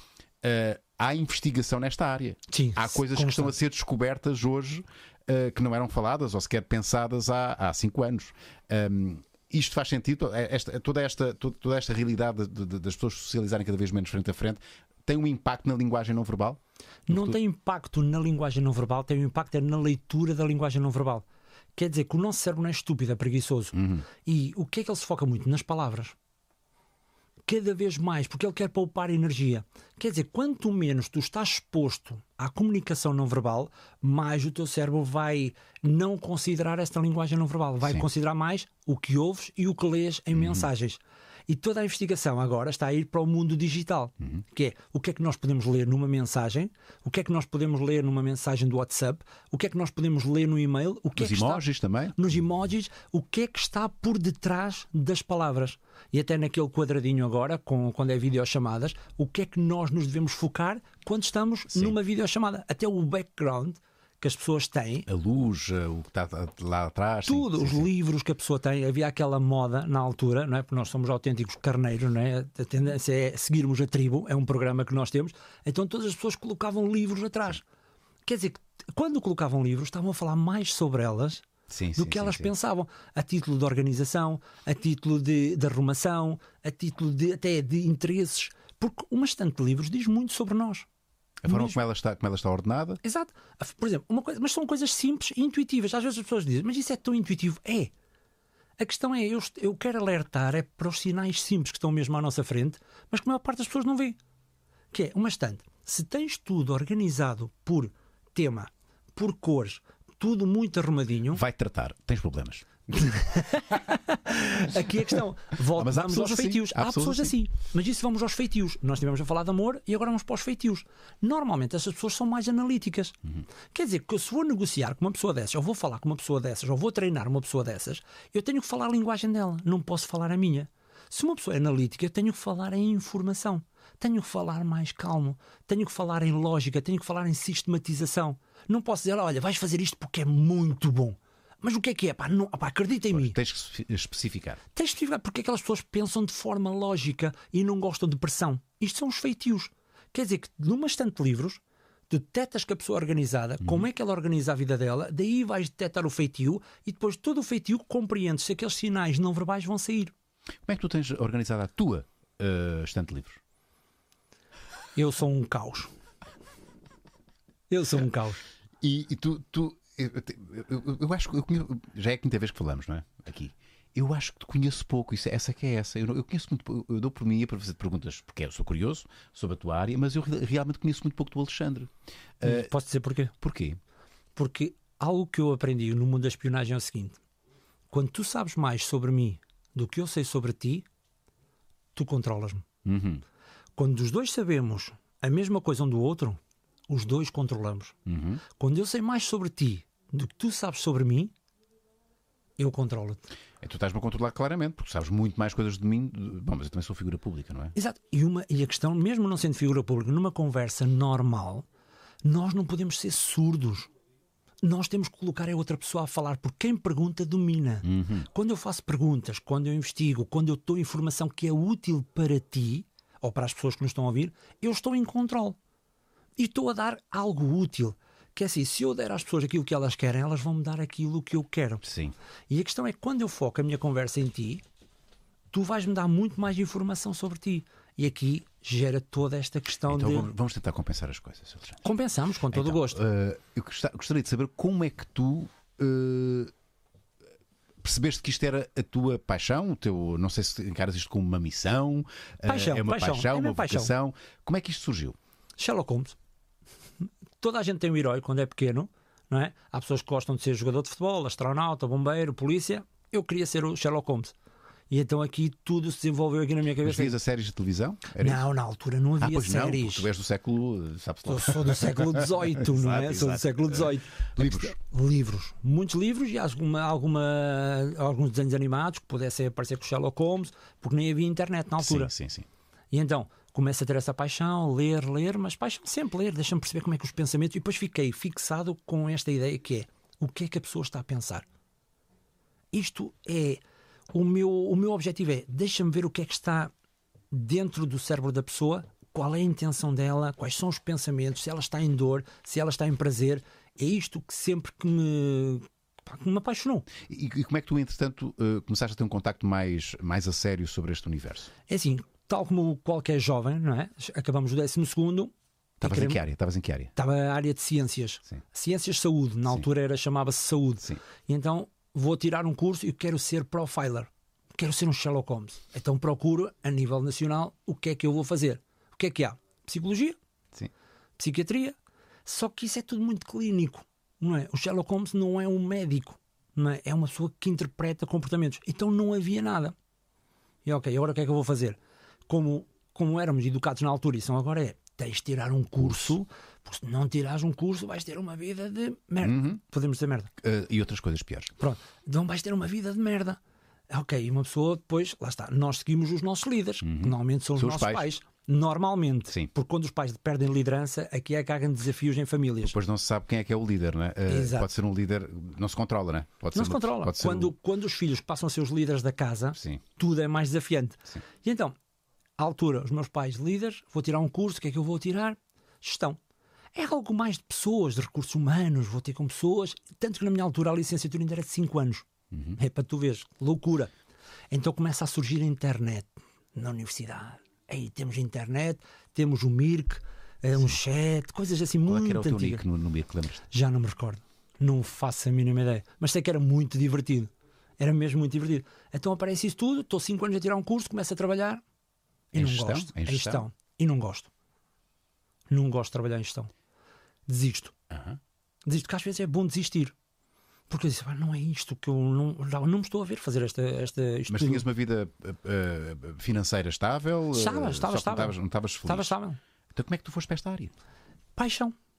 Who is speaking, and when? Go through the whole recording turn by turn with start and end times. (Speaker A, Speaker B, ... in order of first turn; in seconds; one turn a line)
Speaker A: 0.4-17.4
Speaker B: 2.5-3.5
Speaker B: 17.1-21.2
Speaker B: 21.8-26.1
Speaker A: 23.7-24.1
Speaker B: 27.5-65.1
Speaker A: 40.3-40.7
Speaker A: 51.2-52.2
Speaker A: 65.1-67.9
Speaker B: 67.3-77.6
Speaker B: 78.2-81.5
Speaker A: 81.7-82.5
Speaker B: 82.0-90.9
Speaker A: 91.4-93.0
Speaker B: 91.5-91.8
Speaker B: 93.0-97.9
Speaker B: 98.8-104.2
Speaker B: 104.9-111.4
Speaker A: 111.3-113.1
Speaker B: 113.0-123.2
Speaker A: 115.7-117.3
Speaker B: 123.7-143.4
Speaker A: 143.1-144.6
Speaker B: 144.8-160.1
Speaker A: 160.7-163.4
Speaker B: 164.9-165.9
Speaker B: 167.7-168.4
Speaker A: 168.8-182.7
Speaker B: 182.4-183.3
Speaker A: 183.4-183.8
Speaker B: 184.4-187.2
Speaker B: 187.9-190.9
Speaker B: 191.9-192.7
Speaker A: 192.8-193.2
Speaker B: 193.8-198.0
Speaker A: 198.1-198.4
Speaker B: 198.5-201.3
Speaker B: 202.6-203.2
Speaker A: 203.6-207.8
Speaker B: 207.8-211.7
Speaker B: 212.2-213.9
Speaker B: 214.6-225.6
Speaker A: 217.8-218.3
Speaker B: 226.4-231.8
Speaker A: 231.8-232.1
Speaker B: 232.5-234.6
Speaker B: 235.5-240.3
Speaker A: 239.9-241.8
Speaker B: 241.8-243.0
Speaker A: 242.5-246.5
Speaker A: 247.8-255.2
Speaker B: 252.4-253.9
Speaker B: 255.6-256.2
Speaker B: 257.4-264.3
Speaker B: 264.9-267.1
Speaker A: 266.8-268.4
Speaker B: 268.2-270.1
Speaker A: 269.2-274.7
Speaker B: 271.3-282.1
Speaker A: 281.8-282.5
Speaker B: 282.9-291.4
Speaker B: 292.7-293.6
Speaker B: 294.1-296.7
Speaker B: 297.3-306.9
Speaker A: 307.0-311.5
Speaker B: 311.7-316.2
Speaker A: 315.8-316.9
Speaker B: 317.0-330.2
Speaker B: 331.2-339.8
Speaker B: 340.6-350.3
Speaker A: 345.8-346.1
Speaker A: 349.2-349.6
Speaker A: 350.4-351.5
Speaker B: 351.6-353.4
Speaker B: 353.9-362.8
Speaker A: 356.8-358.1
Speaker A: 362.6-367.5
Speaker B: 364.3-364.7
Speaker B: 366.5-371.8
Speaker B: 372.4-376.2
Speaker B: 376.7-383.9
Speaker A: 382.3-382.6
Speaker B: 384.5-392.6
Speaker A: 391.9-393.4
Speaker B: 393.5-401.6
Speaker B: 402.3-404.3
Speaker A: 402.3-403.4
Speaker B: 405.5-406.5
Speaker B: 407.3-407.7
Speaker A: 407.9-408.2
Speaker B: 408.7-409.9
Speaker B: 410.7-414.7
Speaker A: 414.3-419.1
Speaker B: 417.3-419.4
Speaker A: 419.7-420.7
Speaker B: 421.4-421.8